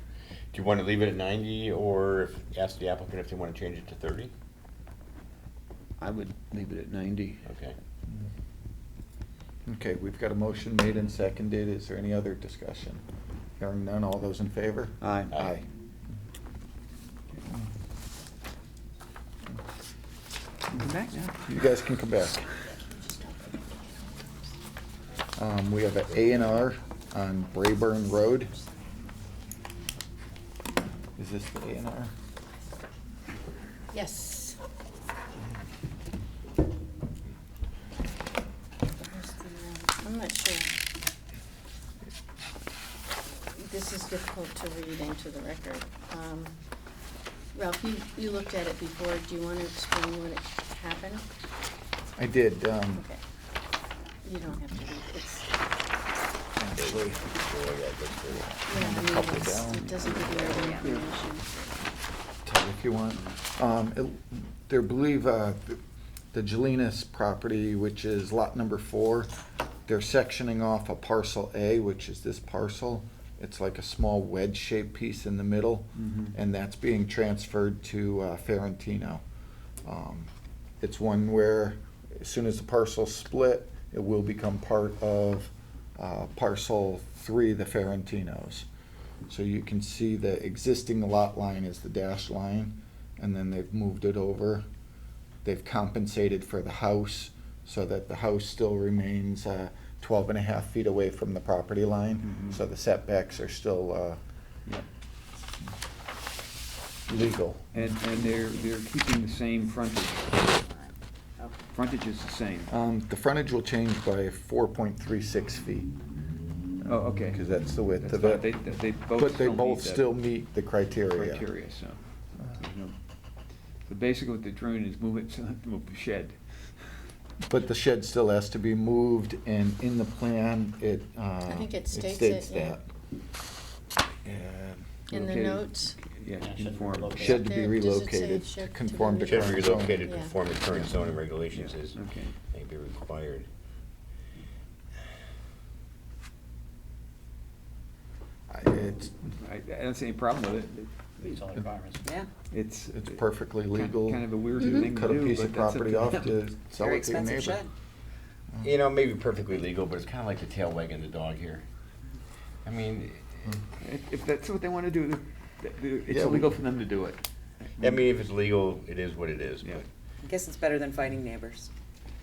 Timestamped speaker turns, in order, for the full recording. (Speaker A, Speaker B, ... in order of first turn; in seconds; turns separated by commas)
Speaker A: 0.5-4.3, Speaker B: 6.0-7.4, Speaker A: 7.4-7.8, Speaker C: 9.7-13.0, Speaker C: 13.6-15.7, Speaker B: 15.0-15.4, Speaker B: 20.7-21.6, Speaker C: 21.5-22.4, Speaker D: 22.7-24.5, Speaker C: 25.4-28.5, Speaker C: 31.2-32.1, Speaker D: 33.9-34.6, Speaker D: 39.0-40.7, Speaker D: 43.5-46.6, Speaker D: 47.5-51.2, Speaker C: 52.1-53.0, Speaker D: 54.2-55.5, Speaker C: 56.6-57.2, Speaker A: 56.8-58.5, Speaker C: 58.3-60.2, Speaker D: 58.7-61.8, Speaker E: 60.4-60.9, Speaker C: 62.4-65.8, Speaker C: 66.3-69.3, Speaker C: 69.9-79.2, Speaker B: 76.0-76.3, Speaker C: 79.8-80.3, Speaker C: 80.8-88.7, Speaker C: 89.3-94.6, Speaker C: 95.4-104.2, Speaker B: 102.2-102.6, Speaker C: 107.1-107.7, Speaker B: 107.7-110.6, Speaker B: 111.7-112.7, Speaker C: 112.7-115.9, Speaker C: 116.8-118.6, Speaker B: 116.9-120.1, Speaker C: 119.1-121.5, Speaker B: 121.1-126.7, Speaker C: 127.5-132.8, Speaker D: 131.5-132.8, Speaker C: 134.2-135.0, Speaker B: 135.1-137.3, Speaker D: 135.1-136.0, Speaker F: 136.4-137.4, Speaker C: 137.1-140.1, Speaker D: 137.2-140.3, Speaker A: 139.2-142.0, Speaker B: 141.5-142.3, Speaker A: 142.5-143.5, Speaker C: 148.5-149.3, Speaker B: 149.4-151.6, Speaker F: 151.2-152.1, Speaker B: 152.5-156.3, Speaker C: 152.9-157.6, Speaker E: 156.8-157.7, Speaker A: 158.6-161.7, Speaker A: 162.6-163.4, Speaker B: 163.8-167.2, Speaker C: 166.1-166.5, Speaker A: 167.8-169.8, Speaker E: 170.2-171.7